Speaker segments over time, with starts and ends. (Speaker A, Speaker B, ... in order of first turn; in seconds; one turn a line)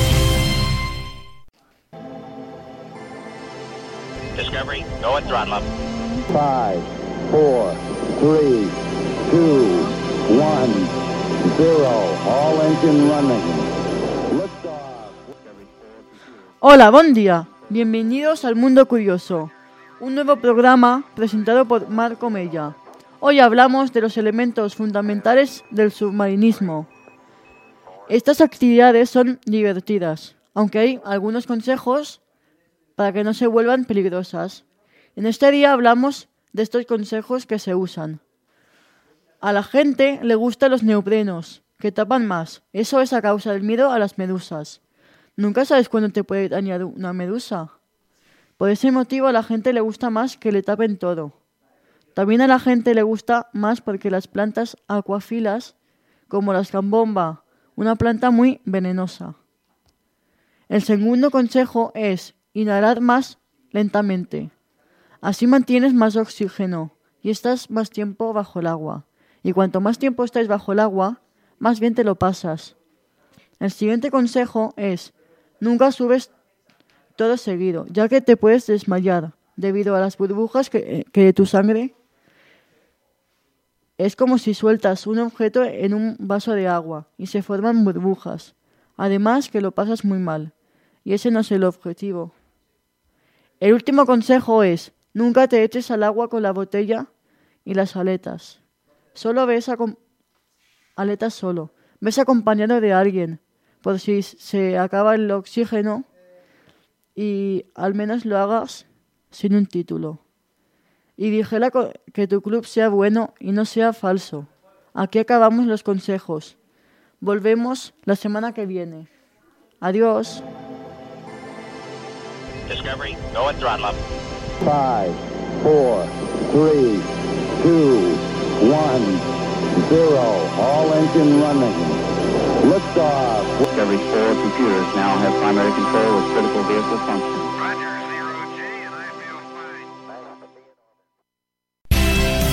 Speaker A: 4.4-5.7
Speaker B: 6.3-13.7
Speaker B: 14.3-15.3
Speaker C: 16.6-26.9
Speaker C: 28.1-32.2
Speaker C: 33.0-34.6
Speaker C: 35.2-38.2
Speaker C: 39.4-44.8
Speaker C: 45.4-47.7
Speaker C: 48.6-51.4
Speaker C: 52.1-55.7
Speaker C: 56.3-59.4
Speaker C: 60.7-64.5
Speaker C: 65.2-72.8
Speaker C: 73.6-76.3
Speaker C: 77.2-81.9
Speaker C: 84.0-90.5
Speaker C: 91.0-92.3
Speaker C: 93.6-97.1
Speaker C: 97.7-98.6
Speaker C: 99.2-100.0
Speaker C: 101.0-106.1
Speaker C: 107.2-110.2
Speaker C: 111.2-116.6
Speaker C: 117.2-119.1
Speaker C: 119.8-120.5
Speaker A: 122.7-124.0
Speaker B: 124.6-132.0
Speaker B: 132.6-133.7
Speaker D: 133.8-139.7